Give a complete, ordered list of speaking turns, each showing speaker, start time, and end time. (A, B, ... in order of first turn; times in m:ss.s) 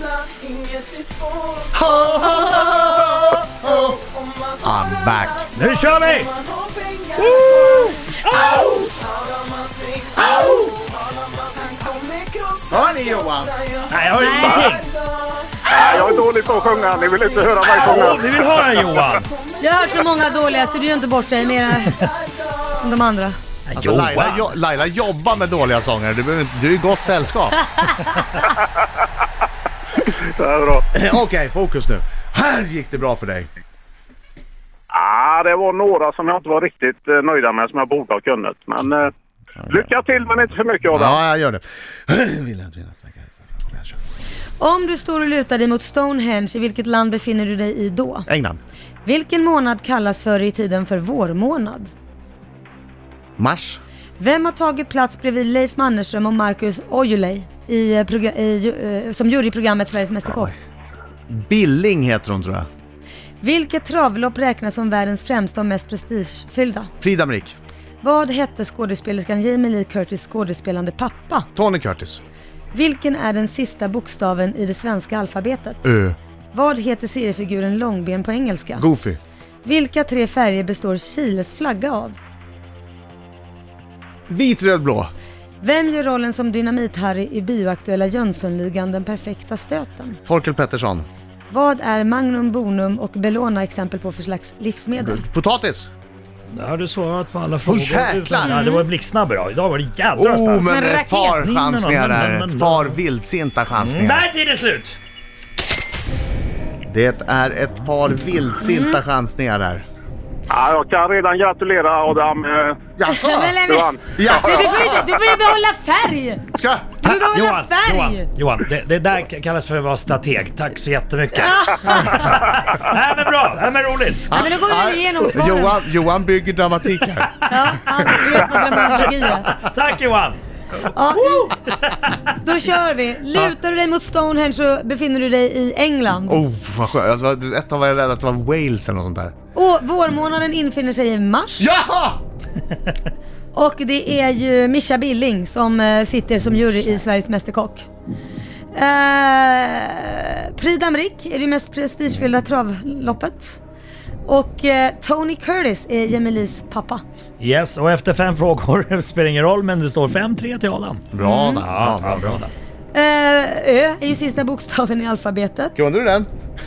0:00.2-0:01.7 A
0:01.7-0:04.0 B
0:04.6-0:05.5 B
0:05.5-0:06.4 C
0:06.5-0:07.1 A
0:08.3-0:08.8 B
0:09.1-0:10.3 A
0:10.2-0:10.8 B
0:10.9-0:12.6 A
0:12.7-0:13.6 B
0:13.9-0:14.9 C
0:14.2-0:14.8 D
0:14.4-0:14.7 E
0:15.7-0:18.3 E
0:15.7-0:16.1 B
0:17.7-0:19.3 C
0:19.6-0:22.1 D
0:22.7-0:23.4 D
0:23.7-0:24.5 C
0:23.8-0:27.6 B
0:30.0-0:30.8 E
0:30.9-0:33.5 B
0:34.9-0:39.1 E
0:39.7-0:41.2 E
0:40.9-0:44.0 B
0:44.6-0:48.3 D
0:48.3-0:48.6 B
0:49.0-0:51.9 D
0:53.4-0:53.8 B
0:54.2-1:00.5 D
1:01.3-1:02.7 B
1:03.4-1:06.9 D
1:07.0-1:07.6 B
1:08.0-1:11.5 D
1:11.6-1:12.2 B
1:12.7-1:15.8 D
1:15.8-1:16.2 B
1:16.5-1:18.9 D
1:18.8-1:19.2 B
1:19.6-1:22.2 D
1:24.3-1:25.1 B
1:25.6-1:30.2 D
1:30.3-1:31.1 B
1:31.5-1:35.2 D
1:35.0-1:35.9 B
1:36.5-1:43.0 C
1:37.6-1:38.6 B
1:38.4-1:38.9 D
1:40.2-1:44.3 B
1:40.7-1:41.2 D
1:43.7-1:45.0 C
1:46.9-1:49.8 B
1:48.6-1:49.0 D
1:50.5-1:52.8 E
1:53.0-1:55.1 B
1:53.1-1:56.5 D
1:53.7-1:54.7 E
1:56.5-1:57.0 B
1:57.0-1:58.3 D
1:57.0-2:04.3 C
2:01.4-2:02.3 D
2:04.3-2:07.8 B
2:04.3-2:05.8 D
2:07.5-2:09.5 D
2:09.0-2:10.4 C
2:10.8-2:11.6 D
2:11.2-2:12.2 C
2:12.3-2:16.4 D
2:16.3-2:19.3 B
2:19.5-2:21.7 D
2:21.6-2:22.2 B
2:23.5-2:27.9 D
2:28.7-2:33.6 D
2:34.2-2:37.0 D
2:37.4-2:41.1 C
2:41.1-2:42.4 B
2:41.2-2:41.7 D
2:41.6-2:42.5 C
2:42.9-2:45.8 D
2:45.8-2:46.3 B